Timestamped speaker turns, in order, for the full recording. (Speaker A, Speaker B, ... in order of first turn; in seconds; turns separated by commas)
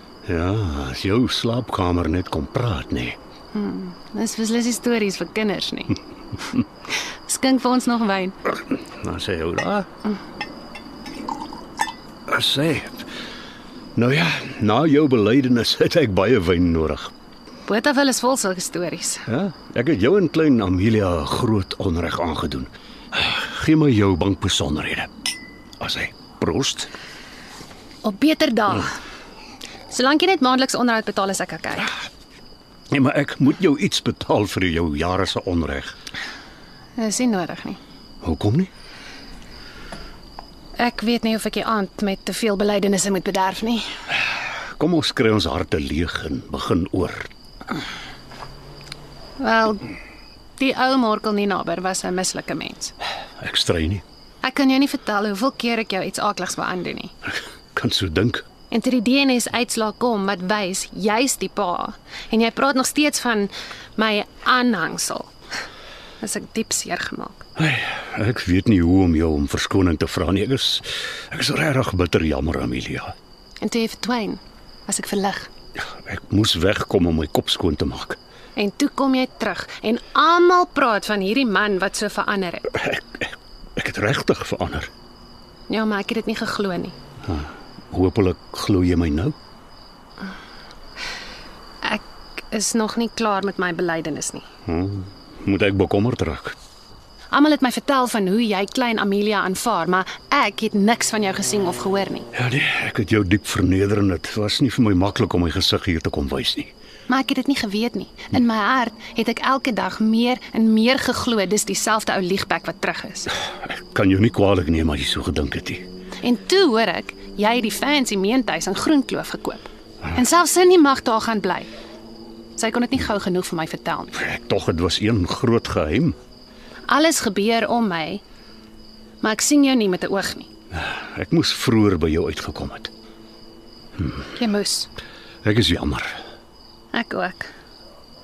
Speaker A: 0.2-3.2, Speaker B: 3.5-6.0, Speaker B: 7.2-8.4, Speaker A: 9.0-9.9, Speaker A: 12.3-13.1, Speaker A: 13.9-17.1, Speaker B: 17.6-19.2, Speaker A: 19.3-25.1, Speaker A: 25.8-26.9, Speaker B: 28.0-28.9, Speaker B: 29.9-31.9, Speaker A: 32.9-36.0, Speaker B: 37.0-37.8, Speaker A: 38.2-38.7, Speaker B: 40.8-43.8, Speaker A: 44.8-47.3, Speaker B: 49.4-49.9, Speaker B: 50.6-52.9, Speaker A: 53.4-54.0, Speaker B: 54.4-57.1, Speaker A: 57.7-58.4, Speaker B: 58.7-65.3, Speaker B: 66.2-67.4, Speaker A: 67.6-73.1, Speaker B: 73.6-75.5, Speaker A: 75.9-78.2, Speaker B: 78.5-82.8, Speaker A: 82.8-84.9, Speaker B: 85.7-86.9, Speaker A: 87.3-89.3, Speaker B: 91.8-94.5, Speaker A: 94.7-96.5, Speaker B: 97.3-102.3, Speaker A: 102.3-106.7, Speaker B: 107.1-113.3, Speaker A: 113.6-115.8, Speaker B: 116.2-121.7, Speaker B: 122.5-124.2, Speaker A: 124.1-126.2, Speaker B: 126.9-128.2, Speaker B: 129.2-130.5, Speaker A: 130.7-132.9, Speaker B: 134.3-134.9, Speaker A: 135.4-136.2, Speaker B: 136.9-137.5